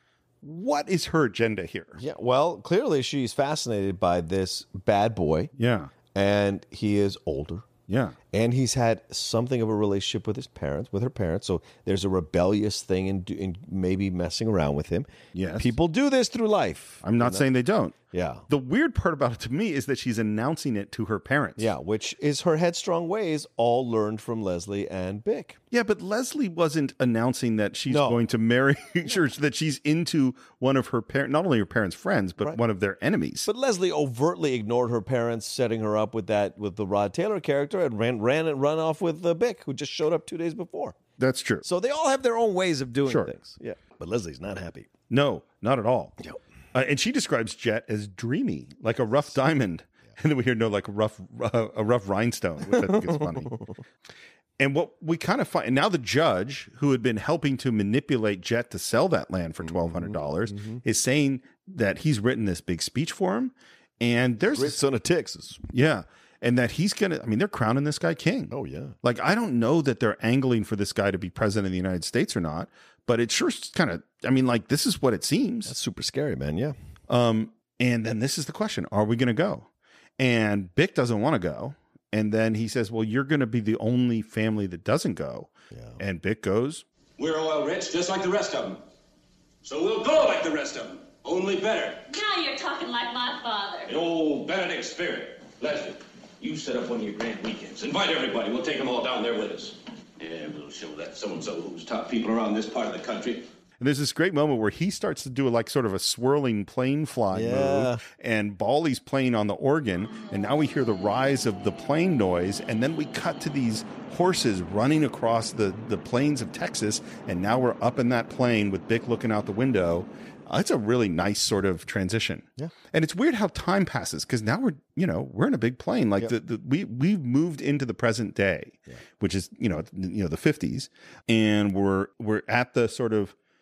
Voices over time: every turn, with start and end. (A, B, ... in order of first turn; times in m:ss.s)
0:00.4-0:02.0 A
0:02.0-0:05.5 B
0:05.6-0:05.9 A
0:06.1-0:07.7 B
0:07.9-0:08.2 A
0:08.3-0:15.1 B
0:15.4-0:15.8 A
0:15.6-0:17.5 B
0:17.0-0:18.0 A
0:18.1-0:18.5 B
0:18.5-0:21.7 A
0:21.6-0:25.6 B
0:25.7-0:33.5 A
0:27.9-0:28.2 B
0:33.5-0:41.0 B
0:41.2-0:41.7 A
0:41.6-0:44.9 B
0:43.1-0:43.3 A
0:45.1-0:46.2 A
0:46.7-0:53.6 A
0:52.7-0:53.8 B
0:54.6-1:04.8 A
0:59.6-1:00.8 B
1:04.4-1:05.6 B
1:05.7-1:15.8 A
1:08.5-1:09.0 B
1:15.7-1:16.8 B
1:17.1-1:19.7 A
1:20.2-1:26.8 A
1:25.7-1:26.0 B
1:27.2-1:28.8 C
1:29.6-1:32.0 C
1:32.0-1:34.0 D
1:33.9-1:43.4 C
1:43.8-2:13.4 A
1:47.3-1:48.0 B